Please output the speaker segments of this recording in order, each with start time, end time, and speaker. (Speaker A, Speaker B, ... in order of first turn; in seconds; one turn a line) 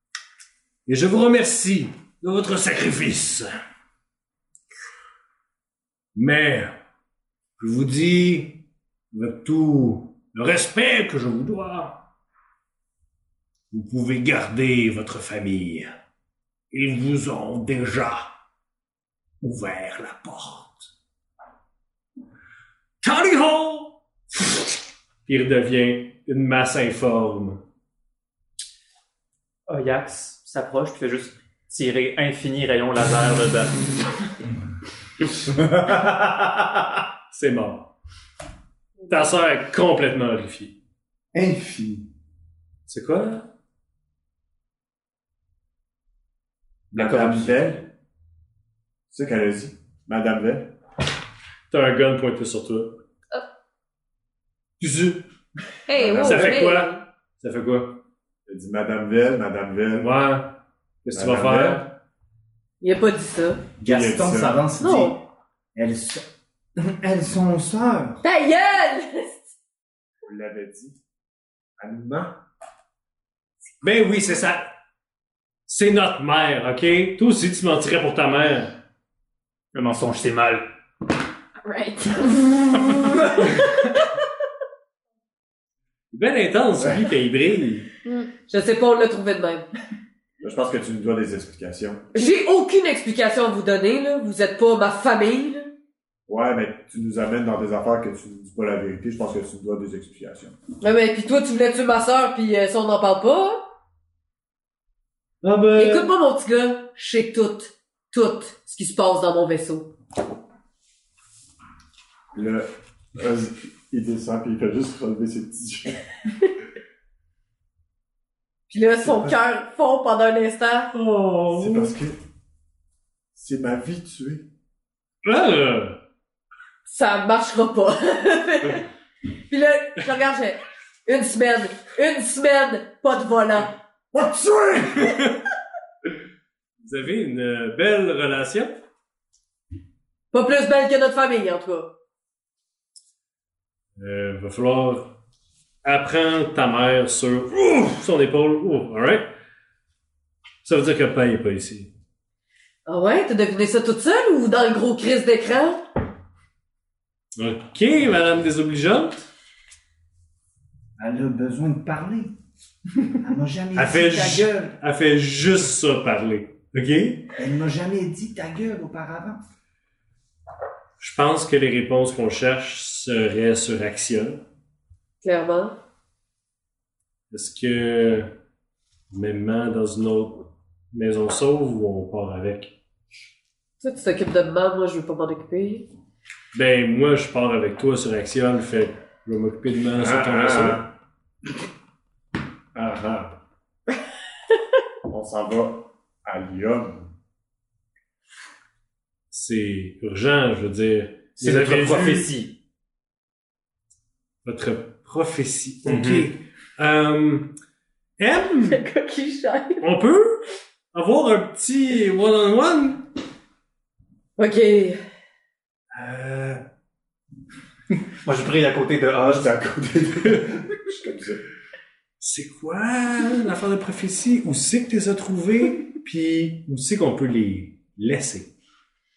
Speaker A: 0.9-3.5
Speaker A: 6.2-6.8
Speaker A: 7.6-8.6
Speaker A: 9.1-12.0
Speaker A: 13.7-15.9
Speaker A: 16.7-18.3
Speaker A: 19.4-20.9
Speaker A: 23.0-27.6
Speaker B: 29.7-33.8
Speaker C: 35.5-36.8
Speaker A: 37.3-37.9
Speaker A: 39.1-40.8
Speaker C: 41.3-42.1
Speaker A: 42.9-43.5
Speaker D: 46.9-47.9
Speaker B: 46.9-47.6
Speaker D: 49.1-50.7
Speaker A: 51.7-53.0
Speaker A: 54.8-55.2
Speaker E: 55.9-57.0
Speaker D: 56.0-56.6
Speaker A: 56.1-58.0
Speaker D: 58.5-60.1
Speaker A: 60.0-61.9
Speaker D: 61.1-61.9
Speaker F: 62.8-63.6
Speaker C: 63.8-65.2
Speaker D: 63.9-64.6
Speaker F: 64.8-65.2
Speaker C: 65.8-68.2
Speaker F: 68.2-69.5
Speaker D: 70.2-71.0
Speaker D: 71.8-72.4
Speaker A: 73.8-74.7
Speaker A: 75.7-78.7
Speaker B: 79.7-80.7
Speaker E: 81.6-83.7
Speaker A: 86.1-87.9
Speaker F: 88.5-89.7
Speaker D: 90.4-92.1
Speaker F: 92.1-95.7
Speaker D: 96.3-100.6
Speaker F: 100.8-103.6
Speaker A: 105.4-106.1
Speaker F: 105.8-109.9
Speaker D: 112.3-116.0
Speaker F: 118.7-120.9
Speaker D: 119.0-119.4
Speaker A: 120.9-122.0
Speaker D: 121.5-122.2
Speaker D: 123.3-124.5
Speaker A: 125.2-126.0
Speaker F: 126.9-128.8
Speaker F: 129.5-133.7
Speaker D: 134.1-135.2
Speaker A: 135.0-135.4
Speaker A: 136.8-138.7
Speaker F: 140.3-141.9
Speaker A: 144.0-145.2
Speaker A: 145.8-149.3
Speaker A: 150.6-151.9
Speaker F: 152.9-155.8
Speaker A: 157.4-159.3
Speaker C: 161.0-162.3
Speaker C: 163.2-164.8
Speaker A: 163.8-167.3
Speaker C: 167.3-169.4
Speaker A: 171.0-174.4
Speaker F: 175.2-175.7
Speaker A: 177.3-178.3
Speaker A: 179.1-182.7
Speaker F: 183.8-185.9
Speaker A: 186.5-190.8
Speaker D: 189.9-190.9
Speaker D: 192.8-193.3
Speaker D: 195.1-197.1
Speaker A: 199.3-202.3
Speaker B: 201.4-202.5
Speaker A: 204.4-207.5
Speaker B: 205.8-206.3
Speaker A: 208.2-208.8
Speaker F: 208.7-209.8
Speaker A: 209.8-213.0
Speaker F: 214.4-215.0
Speaker A: 215.9-216.6
Speaker B: 218.2-219.5
Speaker D: 219.2-221.4
Speaker A: 222.2-228.5